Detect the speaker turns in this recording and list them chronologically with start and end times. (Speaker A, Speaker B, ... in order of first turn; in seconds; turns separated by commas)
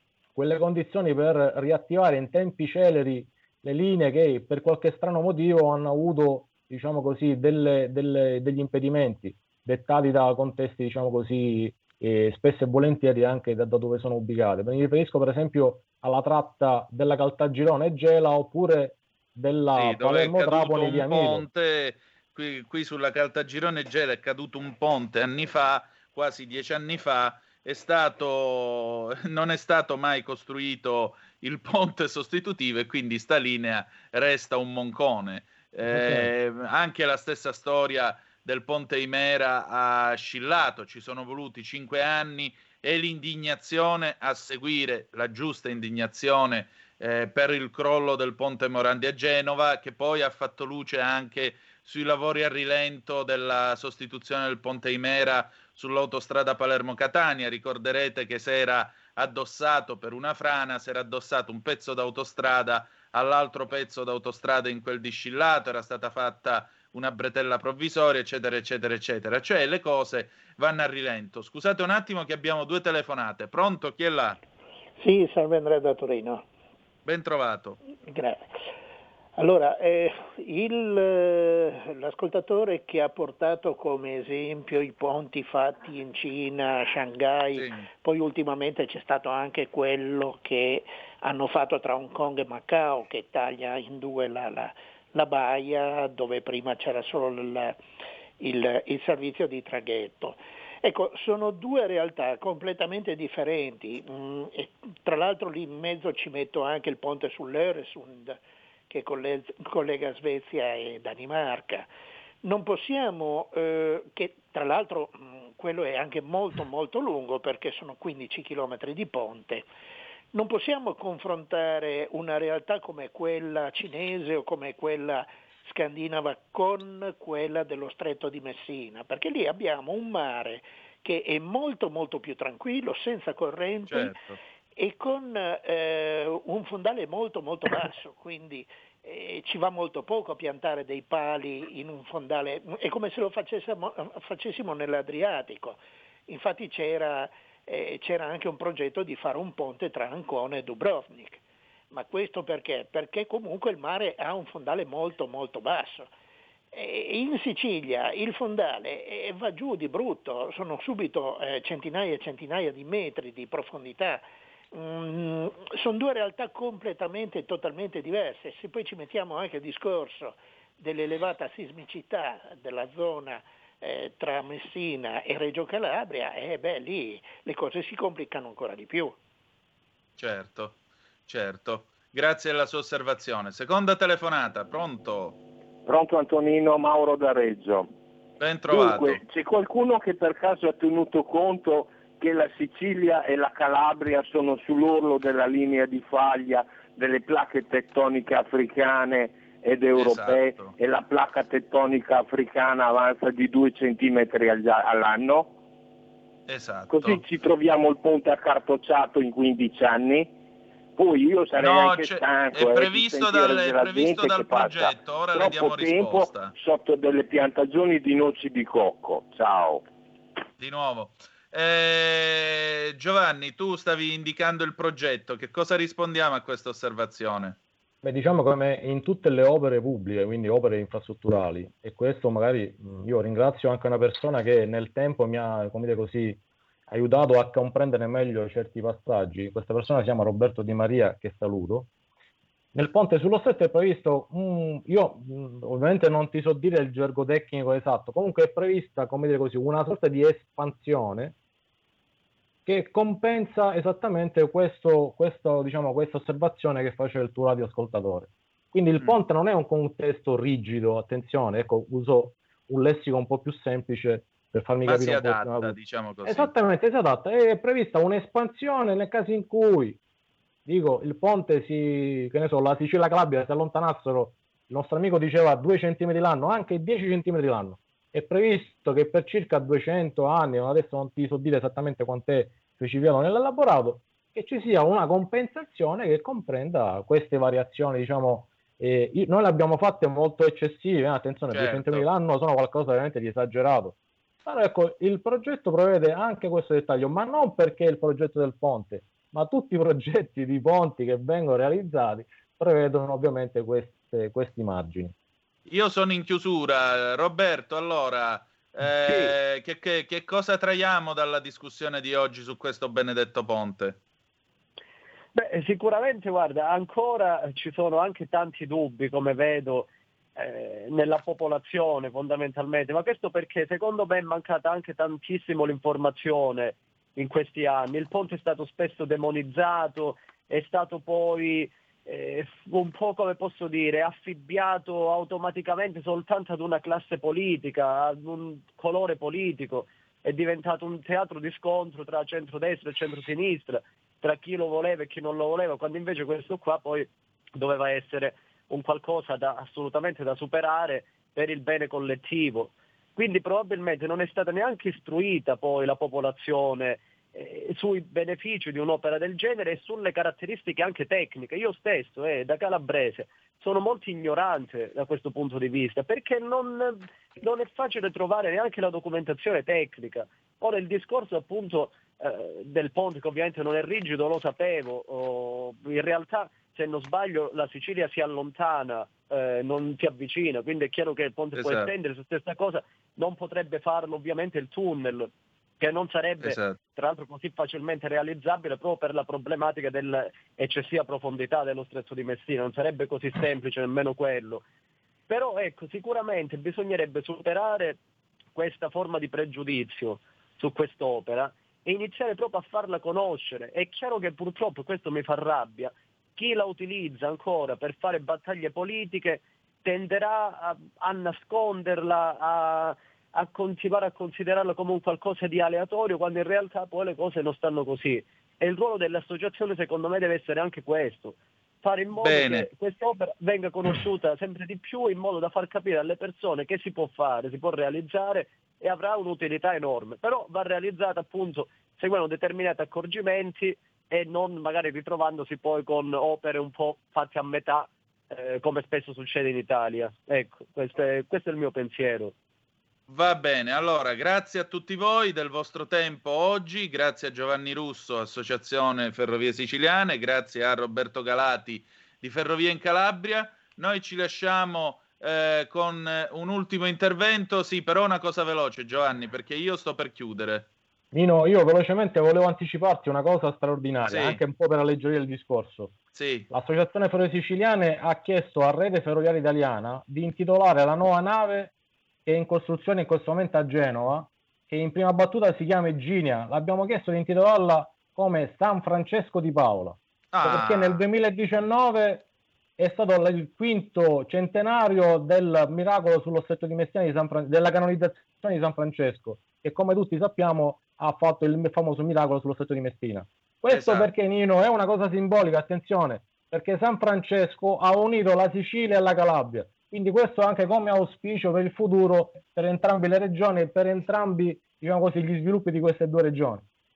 Speaker A: 0.3-21.5, Speaker B: 19.7-74.4, Speaker A: 35.9-36.3, Speaker C: 75.0-76.5, Speaker B: 77.0-77.8, Speaker C: 78.1-78.5, Speaker C: 79.4-97.8, Speaker B: 87.5-87.9, Speaker C: 98.4-108.4, Speaker C: 108.9-111.9, Speaker C: 112.4-119.7, Speaker C: 120.3-134.3, Speaker B: 133.9-134.4, Speaker C: 134.8-151.4, Speaker C: 151.9-156.1, Speaker C: 156.7-179.2, Speaker B: 180.2-180.8, Speaker B: 181.3-185.4, Speaker D: 185.9-187.9, Speaker B: 188.4-189.2, Speaker D: 188.7-205.5, Speaker B: 199.9-200.8, Speaker B: 206.5-207.2, Speaker D: 206.9-210.3, Speaker D: 211.0-219.8, Speaker B: 211.6-216.5, Speaker B: 220.6-227.6, Speaker A: 228.0-241.9, Speaker A: 242.8-251.3, Speaker A: 252.7-270.0, Speaker B: 264.9-266.5, Speaker A: 270.7-305.1, Speaker B: 291.5-292.1, Speaker B: 305.7-314.0, Speaker E: 315.4-394.6, Speaker B: 381.6-381.9, Speaker B: 386.4-386.8, Speaker E: 395.3-398.0, Speaker E: 398.6-442.3, Speaker B: 422.2-422.7, Speaker B: 443.1-460.7, Speaker A: 461.1-466.0, Speaker B: 464.1-464.4, Speaker B: 466.1-466.5, Speaker A: 466.5-471.7, Speaker A: 472.3-482.3, Speaker B: 480.3-481.0, Speaker A: 482.8-506.6, Speaker B: 493.7-494.1